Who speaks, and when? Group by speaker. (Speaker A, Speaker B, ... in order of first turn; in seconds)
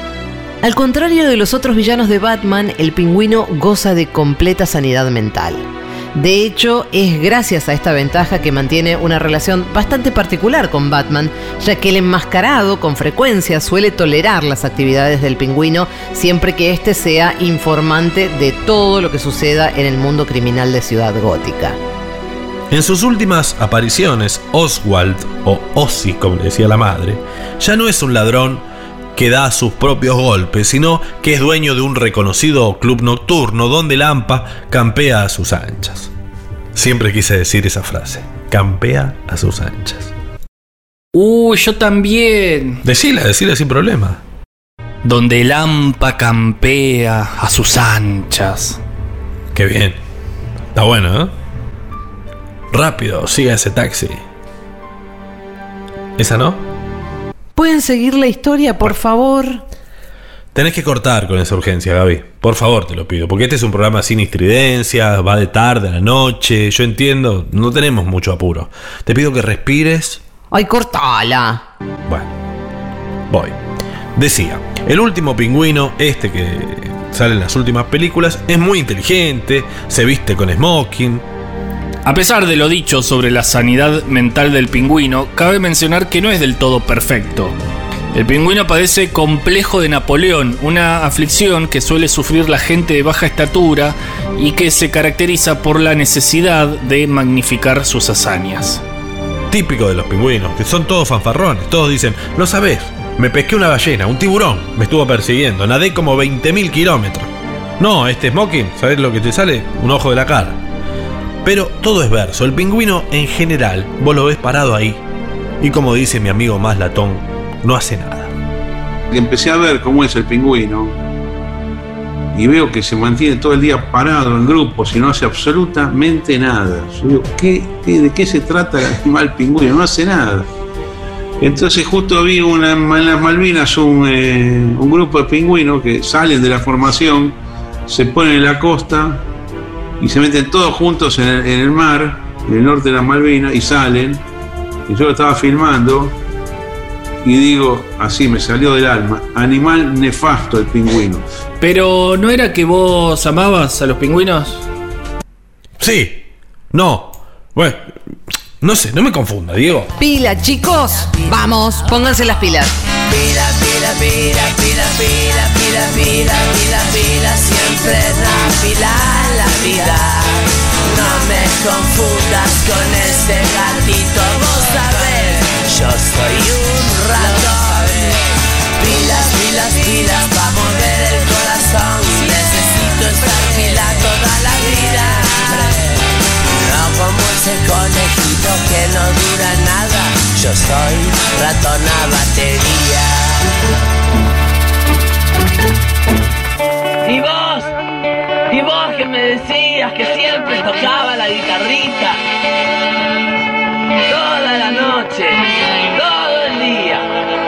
Speaker A: 0.6-21.8, 57.5-59.6, 70.5-71.6, 160.0-162.7
Speaker B: 22.7-36.1, 36.7-40.1, 42.8-44.2, 49.5-50.0, 50.7-51.3, 52.7-54.2, 56.2-56.6, 60.5-70.2, 73.3-73.6, 74.1-81.2, 99.5-110.6, 111.4-115.0, 115.6-118.3, 155.8-158.0, 158.6-159.9
Speaker C: 41.1-42.8, 45.0-48.8, 82.0-87.5, 88.1-98.8, 151.6-154.7
Speaker D: 119.1-121.0, 122.3-130.5, 131.4-139.2, 140.0-144.2, 144.9-146.2, 147.2-151.2
Speaker E: 163.0-193.5
Speaker F: 197.0-197.7, 198.5-202.2, 204.1-207.1